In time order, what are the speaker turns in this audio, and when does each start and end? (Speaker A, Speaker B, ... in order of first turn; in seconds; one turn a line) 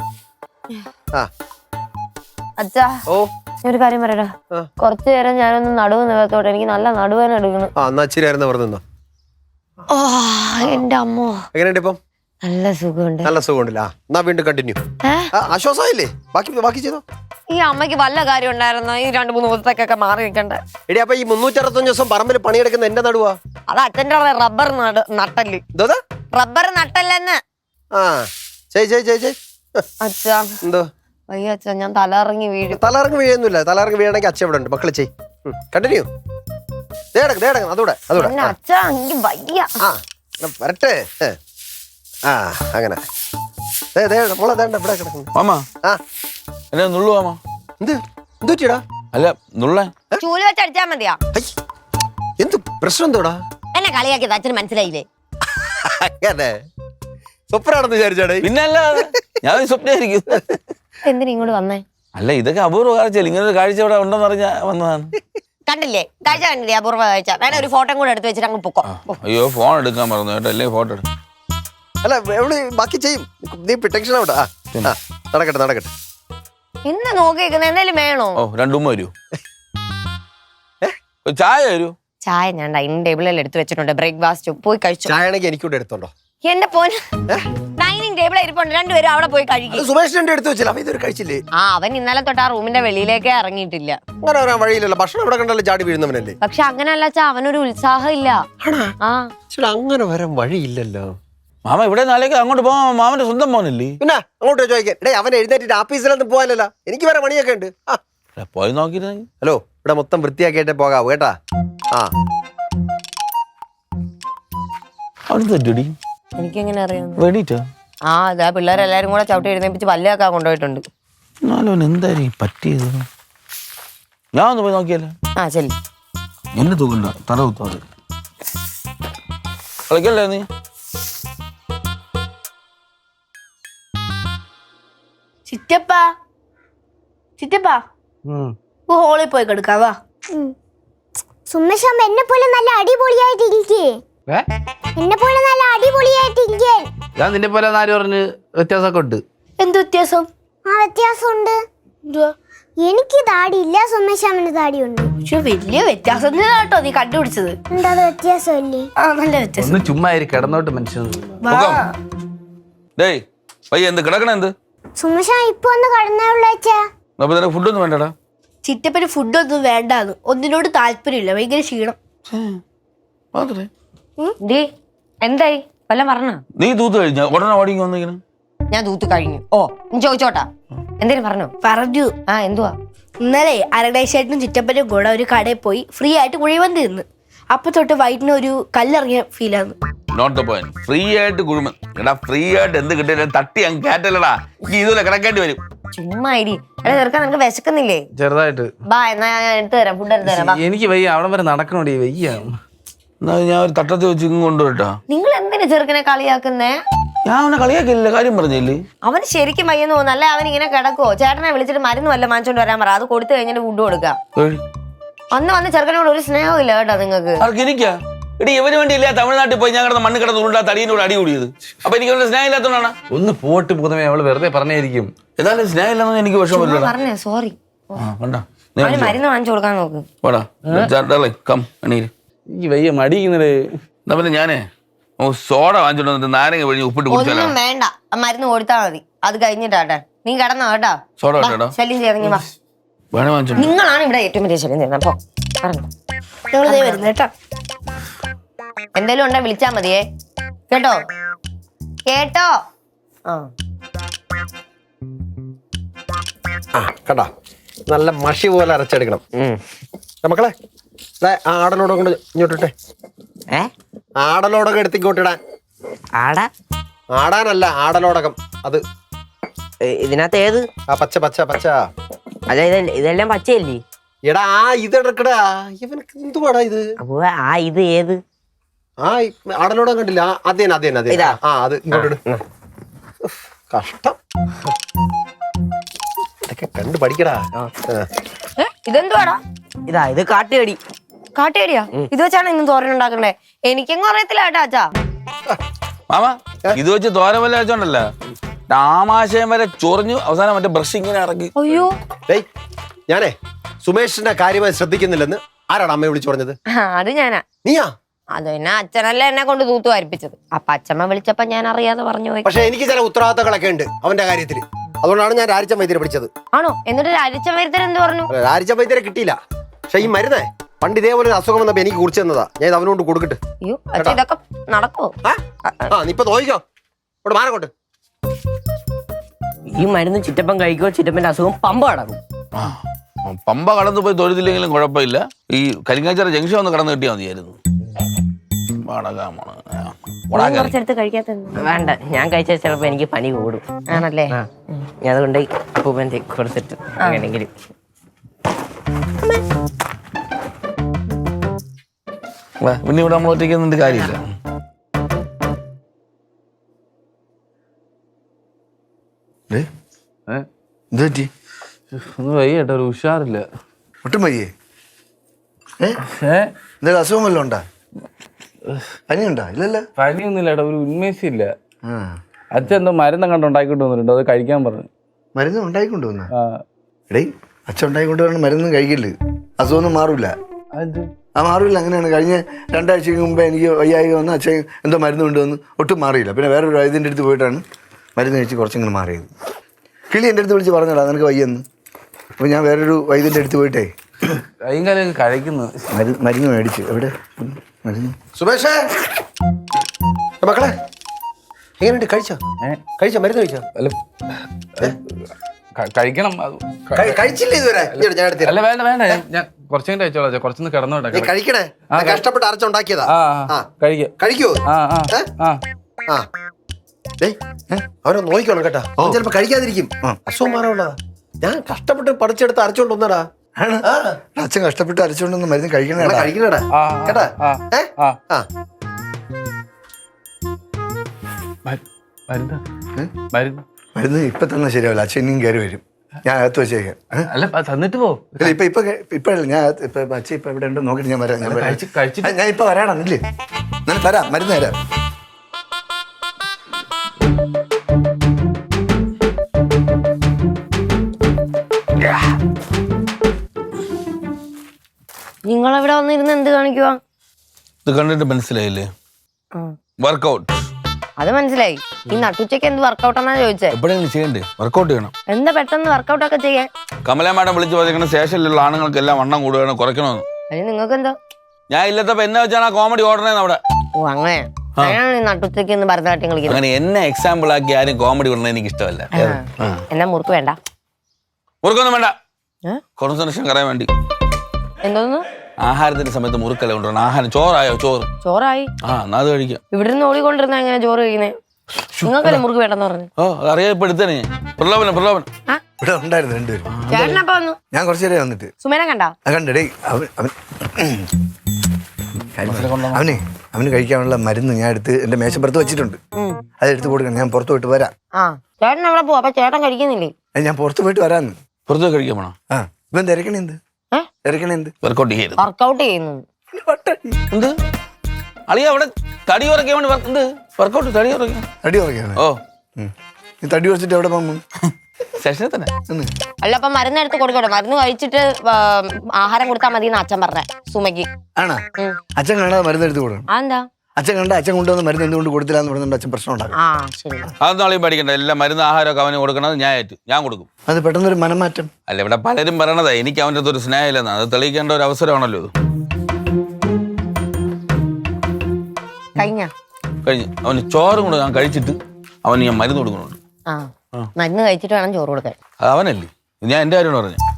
Speaker A: 2.6-3.0
Speaker A: 3.6-7.7
Speaker B: 7.8-8.8
Speaker A: 9.9-11.4
Speaker B: 11.5-12.0
Speaker A: 12.4-13.3
Speaker B: 13.2-14.8
Speaker B: 15.4-17.0
Speaker A: 17.5-20.6
Speaker B: 20.9-23.4
Speaker A: 23.7-25.6
Speaker A: 26.3-27.4
Speaker B: 27.9-29.8
Speaker A: 30.0-30.6
Speaker A: 31.3-32.8
Speaker B: 32.8-36.1
Speaker B: 37.1-38.5
Speaker A: 38.2-39.8
Speaker B: 39.8-41.4
Speaker B: 42.3-43.0
Speaker B: 44.0-45.3
Speaker C: 45.4-45.6
Speaker C: 46.7-47.4
Speaker B: 47.8-48.8
Speaker C: 49.1-49.9
Speaker A: 50.2-51.2
Speaker B: 52.4-53.4
Speaker A: 53.8-55.1
Speaker B: 55.9-56.5
Speaker B: 57.5-58.5
Speaker C: 58.4-60.6
Speaker A: 61.1-61.8
Speaker C: 62.1-65.1
Speaker A: 65.7-69.1
Speaker C: 68.9-71.0
Speaker B: 72.0-75.9
Speaker A: 76.8-78.4
Speaker C: 78.4-79.1
Speaker C: 81.2-81.9
Speaker A: 82.3-85.1
Speaker B: 85.1-86.1
Speaker A: 86.4-87.0
Speaker A: 87.8-89.9
Speaker B: 89.7-91.4
Speaker A: 91.6-94.0
Speaker B: 94.2-96.4
Speaker A: 96.4-98.5
Speaker B: 98.6-98.9
Speaker A: 99.0-99.3
Speaker B: 99.5-101.1
Speaker C: 101.7-104.0
Speaker B: 104.0-108.0
Speaker C: 108.4-109.3
Speaker B: 109.4-111.3
Speaker C: 115.3-116.0
Speaker A: 116.4-117.2
Speaker C: 117.2-117.7
Speaker A: 118.1-120.8
Speaker C: 121.5-123.1
Speaker C: 124.3-125.1
Speaker A: 125.4-125.7
Speaker C: 126.5-127.8
Speaker C: 129.9-130.5
Speaker D: 135.5-136.1
Speaker D: 137.4-137.8
Speaker E: 138.3-138.6
Speaker D: 138.9-140.0
Speaker F: 141.5-144.0
Speaker F: 145.0-146.9
Speaker E: 147.2-149.2
Speaker D: 149.6-150.3
Speaker F: 150.7-151.6
Speaker D: 152.1-152.3
Speaker F: 152.8-155.1
Speaker D: 155.2-157.8
Speaker F: 157.7-158.9
Speaker D: 159.0-159.8
Speaker E: 159.6-161.4
Speaker D: 161.4-161.9
Speaker C: 161.5-161.9
Speaker C: 163.0-164.5
Speaker F: 165.0-166.9
Speaker C: 167.2-168.1
Speaker D: 168.6-172.0
Speaker C: 172.3-172.6
Speaker C: 173.3-173.7
Speaker A: 175.2-176.4
Speaker C: 176.6-178.2
Speaker A: 178.7-180.5
Speaker A: 181.0-181.5
Speaker D: 181.6-182.2
Speaker A: 182.3-182.8
Speaker D: 183.2-189.8
Speaker C: 190.1-195.6
Speaker A: 195.9-198.1
Speaker E: 198.2-198.7
Speaker A: 198.9-200.6
Speaker E: 200.2-202.6
Speaker C: 203.2-204.9
Speaker A: 205.1-206.8
Speaker C: 207.2-208.8
Speaker A: 209.0-214.2
Speaker C: 214.4-214.6
Speaker A: 215.3-217.4
Speaker C: 217.4-223.0
Speaker E: 223.1-225.1
Speaker C: 225.4-226.9
Speaker A: 226.5-228.0
Speaker C: 228.0-229.2
Speaker A: 228.8-230.1
Speaker C: 230.2-232.1
Speaker E: 232.5-233.6
Speaker C: 234.1-234.6
Speaker C: 235.2-237.6
Speaker A: 237.1-242.5
Speaker C: 241.2-241.7
Speaker C: 243.1-243.7
Speaker A: 243.6-245.9
Speaker D: 246.5-247.3
Speaker A: 246.7-247.1
Speaker A: 249.0-250.0
Speaker A: 250.7-251.0
Speaker A: 252.1-252.5
Speaker B: 256.8-257.3
Speaker B: 257.9-259.2
Speaker G: 259.4-259.6
Speaker B: 260.2-260.5
Speaker B: 261.2-262.7
Speaker B: 264.2-265.4
Speaker G: 266.2-266.5
Speaker B: 267.1-268.8
Speaker G: 269.8-270.7
Speaker B: 270.9-271.8
Speaker G: 272.5-273.8
Speaker B: 274.3-276.8
Speaker G: 277.0-278.2
Speaker B: 279.0-282.2
Speaker G: 281.1-281.4
Speaker G: 281.9-282.4
Speaker B: 283.7-284.2
Speaker B: 286.5-288.1
Speaker A: 288.6-289.4
Speaker G: 289.9-290.8
Speaker A: 291.4-294.9
Speaker C: 296.1-298.1
Speaker C: 298.7-301.5
Speaker A: 301.6-301.9
Speaker B: 303.1-303.3
Speaker B: 303.8-306.6
Speaker A: 306.7-307.4
Speaker A: 308.4-312.5
Speaker B: 312.4-316.3
Speaker A: 316.5-318.3
Speaker B: 318.3-319.4
Speaker B: 319.9-323.4
Speaker A: 323.6-325.1
Speaker A: 325.6-325.9
Speaker B: 325.9-326.6
Speaker B: 327.2-327.7
Speaker G: 329.7-332.2
Speaker C: 332.6-337.6
Speaker C: 338.8-340.7
Speaker A: 340.3-341.7
Speaker G: 341.6-343.8
Speaker A: 343.9-344.4
Speaker G: 344.3-347.5
Speaker A: 347.0-347.3
Speaker C: 352.6-354.2
Speaker H: 360.9-361.3
Speaker E: 361.9-363.5
Speaker H: 364.0-364.5
Speaker E: 366.1-366.5
Speaker H: 366.8-367.6
Speaker H: 369.1-369.9
Speaker E: 370.0-371.5
Speaker H: 371.9-372.2
Speaker E: 372.5-374.9
Speaker H: 375.4-376.3
Speaker E: 376.4-376.6
Speaker H: 377.1-380.3
Speaker E: 380.7-381.1
Speaker H: 381.4-387.6
Speaker H: 388.2-389.3
Speaker H: 390.1-391.6
Speaker H: 392.4-393.9
Speaker E: 394.6-395.8
Speaker H: 395.9-398.2
Speaker B: 398.4-398.8
Speaker B: 400.4-400.7
Speaker B: 401.8-402.4
Speaker B: 403.0-403.6
Speaker E: 403.8-405.0
Speaker E: 405.8-407.2
Speaker B: 406.9-408.6
Speaker E: 407.9-411.3
Speaker B: 411.1-413.7
Speaker E: 411.9-412.2
Speaker E: 413.1-414.1
Speaker B: 414.2-415.2
Speaker E: 414.7-415.6
Speaker B: 418.0-423.2
Speaker H: 423.6-426.3
Speaker B: 423.9-424.1
Speaker B: 426.0-428.4
Speaker E: 426.7-428.2
Speaker E: 431.7-432.6
Speaker E: 433.3-433.6
Speaker H: 434.0-437.3
Speaker E: 437.3-438.6
Speaker H: 438.4-443.2
Speaker E: 441.4-442.4
Speaker H: 443.9-444.8
Speaker A: 455.4-457.0
Speaker C: 457.9-458.9
Speaker C: 460.0-460.6
Speaker A: 461.2-463.8
Speaker C: 463.7-465.1
Speaker A: 465.3-466.7
Speaker C: 467.1-470.2
Speaker A: 470.5-471.2
Speaker C: 471.7-473.6
Speaker A: 474.0-476.6
Speaker C: 476.5-479.8
Speaker A: 479.2-480.6
Speaker C: 481.6-482.1
Speaker C: 483.0-483.9
Speaker A: 484.8-485.3
Speaker C: 485.6-488.1
Speaker A: 488.2-488.7
Speaker C: 488.8-489.6
Speaker A: 489.7-491.4
Speaker H: 491.9-492.3
Speaker A: 492.0-493.1
Speaker C: 493.2-495.3
Speaker H: 495.8-496.7
Speaker C: 496.7-497.2
Speaker A: 496.9-497.6
Speaker H: 497.7-498.5
Speaker A: 498.6-499.1
Speaker H: 499.2-501.3
Speaker H: 502.4-506.0
Speaker C: 502.4-503.2
Speaker H: 506.6-507.9
Speaker A: 508.2-510.1
Speaker H: 510.4-511.4
Speaker C: 511.7-512.4
Speaker H: 512.5-513.6
Speaker H: 514.2-514.7
Speaker C: 514.8-515.4
Speaker A: 515.4-516.2
Speaker H: 516.5-517.2
Speaker C: 518.5-521.5
Speaker H: 521.6-522.2
Speaker H: 522.8-524.4
Speaker C: 525.2-525.7
Speaker A: 526.4-531.1
Speaker H: 531.4-531.6
Speaker H: 532.2-533.3
Speaker A: 533.3-533.6
Speaker H: 534.0-536.6
Speaker A: 536.5-537.3
Speaker C: 537.4-540.5
Speaker H: 540.7-541.7
Speaker C: 541.9-545.5
Speaker A: 549.2-549.5
Speaker C: 550.0-553.2
Speaker A: 553.5-555.4
Speaker C: 555.6-557.2